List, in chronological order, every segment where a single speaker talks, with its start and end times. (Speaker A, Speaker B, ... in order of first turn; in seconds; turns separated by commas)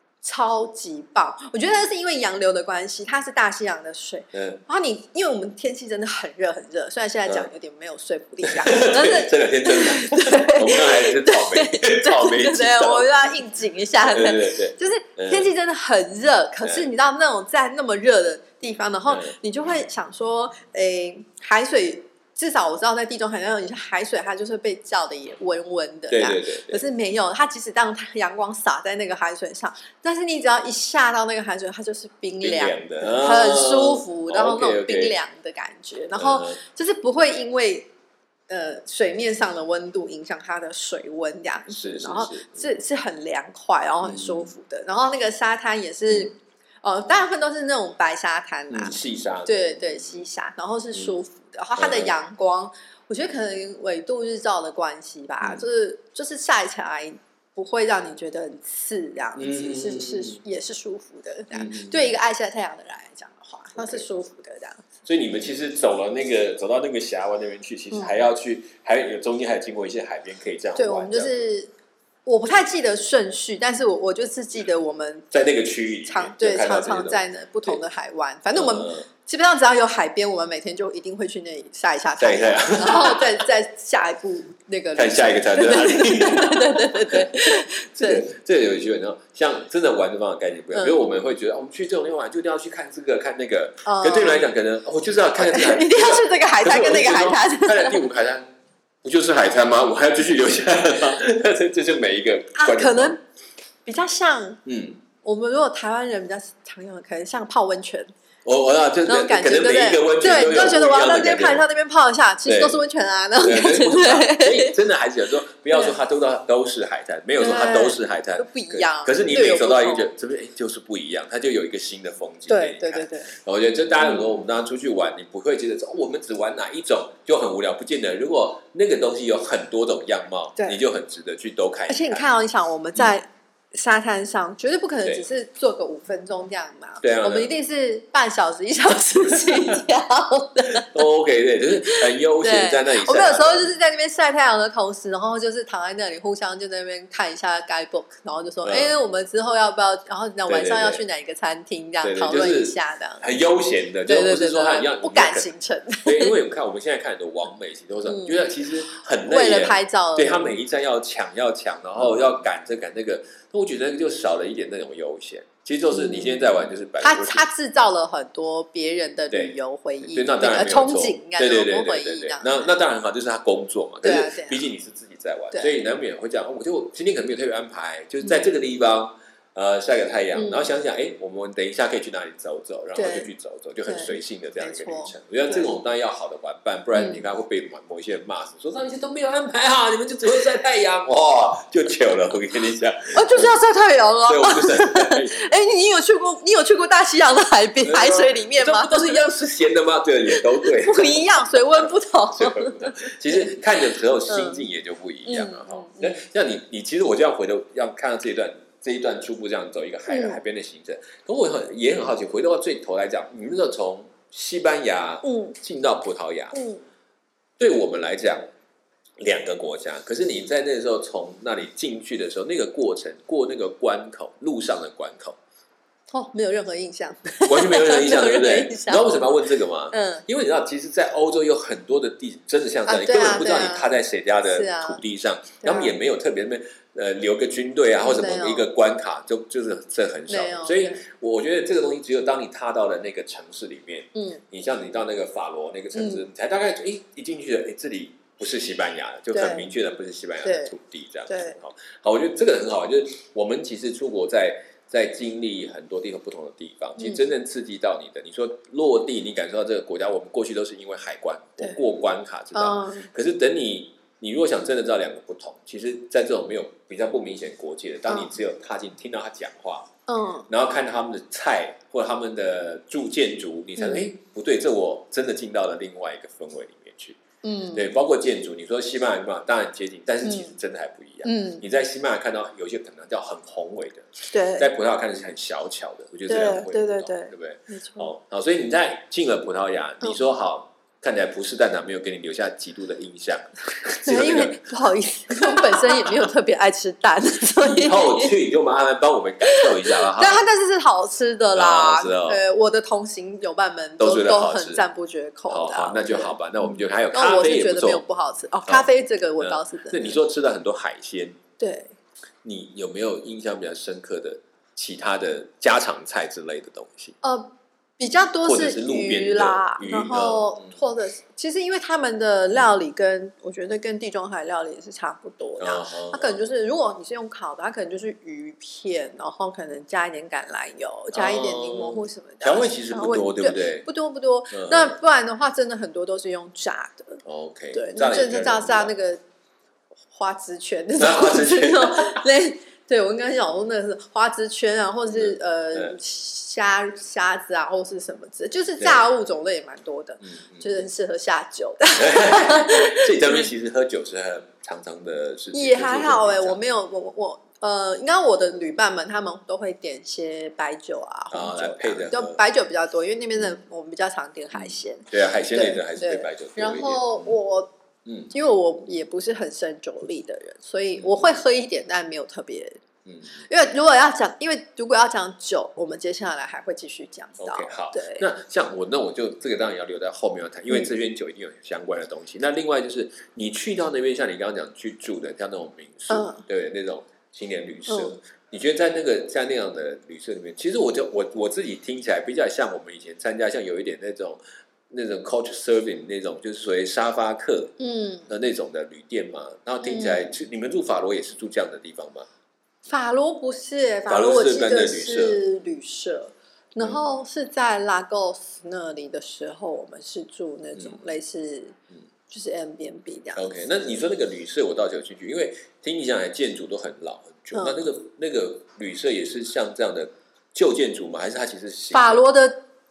Speaker A: 0.2-37.9, Speaker B: 4.3-4.6, Speaker B: 8.4-13.1, Speaker B: 14.0-15.5, Speaker B: 19.1-19.4, Speaker B: 26.1-26.8, Speaker B: 32.4-35.1, Speaker B: 36.2-36.6, Speaker A: 38.5-64.8, Speaker B: 41.7-42.7, Speaker B: 44.0-44.5, Speaker B: 48.7-50.2, Speaker B: 51.8-52.1, Speaker B: 55.4-55.7, Speaker B: 59.4-60.4, Speaker B: 61.5-62.1, Speaker B: 63.8-64.0, Speaker B: 65.0-71.4, Speaker A: 67.9-68.2, Speaker A: 70.8-71.7, Speaker A: 72.3-75.3, Speaker B: 75.3-77.8, Speaker A: 76.1-88.3, Speaker B: 78.5-79.1, Speaker B: 82.2-83.5, Speaker B: 85.0-98.5, Speaker A: 90.7-91.0, Speaker A: 93.8-94.5, Speaker A: 95.4-98.0, Speaker B: 99.0-103.1, Speaker A: 102.5-103.2, Speaker A: 103.8-104.6, Speaker B: 104.6-105.0, Speaker A: 105.2-108.1, Speaker B: 108.5-111.6, Speaker A: 109.1-114.8, Speaker B: 112.5-112.8, Speaker B: 113.4-132.2, Speaker A: 117.4-120.1, Speaker A: 122.5-123.4, Speaker A: 131.9-141.0, Speaker B: 137.0-137.5, Speaker B: 139.3-139.8, Speaker B: 140.7-143.7, Speaker A: 141.7-153.3, Speaker B: 148.6-149.0, Speaker B: 150.5-151.0, Speaker B: 152.0-155.5, Speaker A: 154.1-156.4, Speaker B: 156.0-167.5, Speaker A: 158.1-160.6, Speaker A: 165.9-172.7, Speaker B: 169.3-193.5, Speaker A: 174.0-174.7, Speaker A: 180.3-180.8, Speaker A: 182.9-183.3, Speaker A: 183.9-185.7, Speaker A: 186.9-187.2, Speaker A: 193.1-199.2, Speaker B: 194.3-195.5, Speaker B: 197.8-216.6, Speaker A: 200.3-203.6, Speaker A: 204.3-204.6, Speaker A: 205.3-206.2, Speaker A: 210.1-210.4, Speaker A: 215.2-215.6, Speaker A: 216.5-216.8, Speaker B: 217.6-218.5, Speaker B: 219.2-225.4, Speaker A: 226.1-230.2, Speaker B: 227.5-269.9, Speaker A: 232.9-235.0, Speaker A: 235.6-235.9, Speaker A: 238.0-238.7, Speaker A: 240.3-241.0, Speaker A: 244.1-244.4, Speaker A: 245.9-246.2, Speaker A: 249.3-249.7, Speaker A: 250.4-250.7, Speaker A: 251.3-251.6, Speaker A: 257.0-257.3, Speaker A: 262.5-263.1, Speaker A: 268.1-268.4, Speaker A: 270.1-270.5, Speaker B: 270.5-277.2, Speaker A: 273.8-274.1, Speaker A: 277.4-277.9, Speaker B: 277.7-294.7, Speaker A: 280.2-280.6, Speaker A: 281.2-281.6, Speaker A: 284.3-284.7, Speaker A: 286.3-288.1, Speaker A: 293.9-298.3, Speaker B: 295.3-296.3, Speaker B: 297.6-300.4, Speaker A: 299.5-310.2, Speaker B: 301.6-302.4, Speaker B: 304.0-304.8, Speaker B: 305.5-308.0, Speaker B: 308.7-311.4, Speaker A: 311.6-311.9, Speaker B: 312.4-317.2, Speaker A: 317.2-337.2, Speaker B: 318.4-320.7, Speaker B: 325.6-326.4, Speaker B: 331.1-333.9, Speaker B: 334.5-335.0, Speaker B: 337.3-338.9, Speaker A: 337.7-339.2, Speaker A: 340.1-353.5, Speaker B: 341.0-342.2, Speaker B: 345.1-346.0, Speaker B: 348.8-349.1, Speaker B: 350.2-350.8, Speaker B: 352.0-356.6, Speaker A: 355.5-367.7, Speaker B: 361.3-362.4, Speaker B: 364.5-367.3, Speaker B: 368.1-368.3, Speaker A: 368.3-372.8, Speaker B: 371.0-371.4, Speaker B: 373.1-373.4, Speaker A: 373.4-378.3, Speaker B: 377.4-397.7, Speaker A: 386.1-386.4, Speaker A: 387.9-388.1, Speaker A: 397.8-398.3, Speaker B: 398.3-402.3, Speaker A: 399.8-400.3, Speaker A: 402.9-411.8, Speaker B: 404.1-405.4, Speaker B: 410.8-411.0, Speaker A: 412.3-413.7, Speaker B: 413.4-422.2, Speaker A: 417.5-417.9, Speaker A: 421.9-422.6